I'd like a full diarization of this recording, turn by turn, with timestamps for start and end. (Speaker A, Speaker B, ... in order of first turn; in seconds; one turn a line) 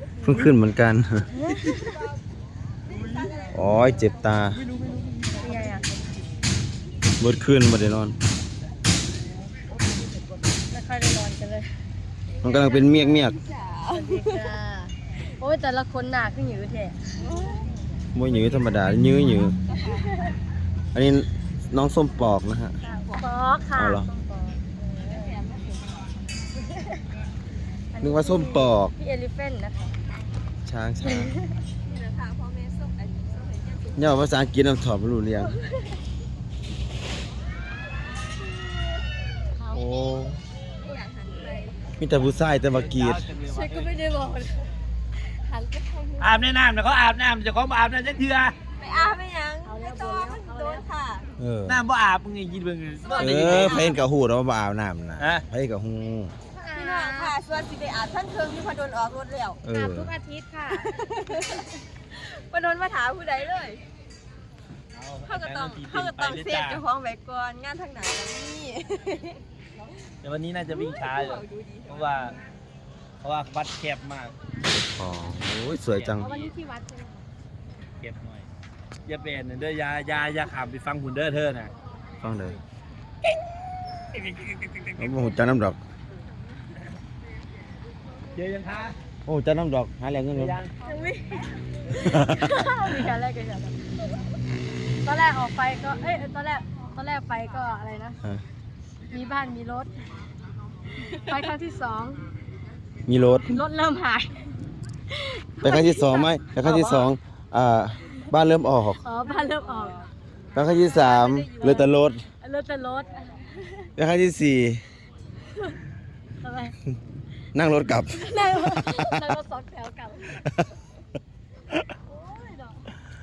Speaker A: 0.2-1.3
Speaker B: 1.3-1.9
Speaker C: 1.8-2.1
Speaker C: 2.9-4.4
Speaker A: 3.5-4.6
Speaker D: 4.6-5.3
Speaker B: 5.4-5.8
Speaker C: 5.5-5.8
Speaker A: 7.2-8.2
Speaker B: 10.7-11.7
Speaker C: 12.3-14.5
Speaker A: 12.4-13.4
Speaker B: 13.9-17.2
Speaker C: 17.2-17.7
Speaker A: 18.1-19.6
Speaker C: 18.3-20.1
Speaker B: 19.9-20.4
Speaker A: 20.9-22.8
Speaker C: 22.8-23.3
Speaker B: 22.8-25.4
Speaker A: 23.8-24.1
Speaker C: 25.0-26.2
Speaker B: 26.6-27.0
Speaker B: 27.9-30.0
Speaker A: 28.0-28.9
Speaker A: 30.6-31.3
Speaker B: 31.0-31.6
Speaker C: 31.8-34.2
Speaker A: 34.0-35.5
Speaker B: 35.4-35.8
Speaker B: 39.5-39.9
Speaker A: 39.7-40.4
Speaker C: 40.8-41.9
Speaker B: 40.8-41.6
Speaker A: 42.0-43.3
Speaker D: 42.7-43.9
Speaker B: 43.4-46.5
Speaker D: 46.2-48.6
Speaker C: 48.8-51.3
Speaker B: 48.8-50.9
Speaker A: 51.4-51.8
Speaker D: 51.7-53.9
Speaker C: 53.0-54.0
Speaker A: 53.2-56.3
Speaker D: 55.2-55.5
Speaker B: 56.5-57.3
Speaker C: 56.7-59.6
Speaker A: 59.6-60.1
Speaker B: 59.7-61.0
Speaker C: 60.7-63.8
Speaker D: 64.9-66.8
Speaker C: 65.2-69.4
Speaker D: 70.2-72.3
Speaker C: 70.7-72.3
Speaker D: 73.2-74.3
Speaker A: 74.7-76.3
Speaker D: 75.9-76.5
Speaker B: 76.2-77.3
Speaker D: 78.0-78.5
Speaker D: 79.0-81.7
Speaker A: 82.2-82.6
Speaker D: 84.3-84.8
Speaker A: 85.0-85.8
Speaker D: 88.3-89.0
Speaker A: 89.2-90.6
Speaker D: 90.4-90.7
Speaker B: 90.8-94.1
Speaker A: 91.9-92.5
Speaker B: 95.0-98.2
Speaker B: 99.1-99.9
Speaker B: 101.3-102.2
Speaker A: 103.1-103.6
Speaker B: 103.4-104.5
Speaker B: 105.1-107.1
Speaker A: 105.6-109.0
Speaker B: 109.0-110.1
Speaker A: 110.5-112.2
Speaker B: 110.6-113.9
Speaker A: 114.0-114.8
Speaker B: 115.4-115.8
Speaker B: 116.4-116.7
Speaker A: 117.5-119.3
Speaker B: 118.1-120.4
Speaker A: 120.3-120.7
Speaker B: 122.1-122.8